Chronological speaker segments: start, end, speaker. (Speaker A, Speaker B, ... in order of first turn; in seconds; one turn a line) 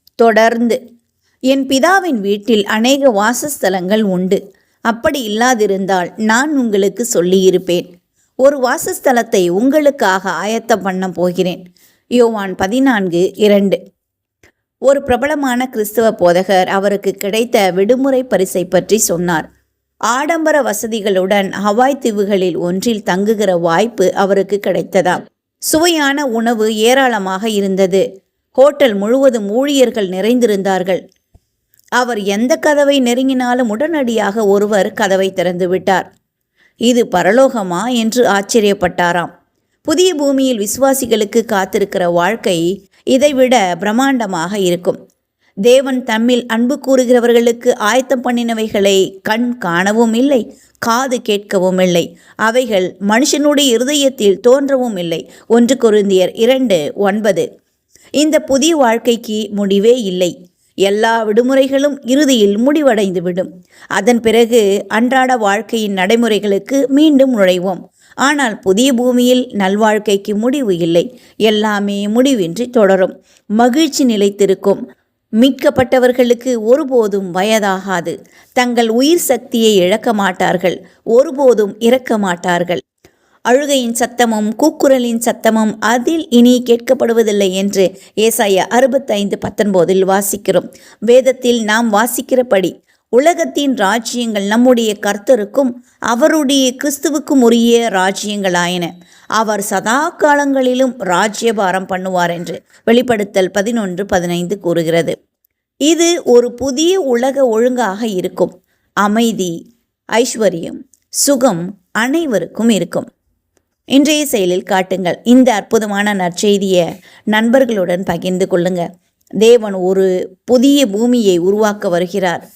Speaker A: 0.2-0.8
Speaker A: 1.5-4.4
Speaker A: 4.9-7.9
Speaker A: 8.4-11.6
Speaker A: 12.2-13.8
Speaker A: 14.9-19.4
Speaker A: 20.1-28.0
Speaker A: 28.6-31.0
Speaker A: 32.0-36.1
Speaker A: 36.9-39.3
Speaker A: 39.9-45.0
Speaker A: 45.7-57.5
Speaker A: 58.2-60.3
Speaker A: 60.9-74.8
Speaker A: 75.4-82.8
Speaker A: 83.5-105.2
Speaker A: 105.9-109.5
Speaker A: 110.2-113.1
Speaker A: 114.0-116.8
Speaker A: 117.3-118.8
Speaker A: 119.4-122.4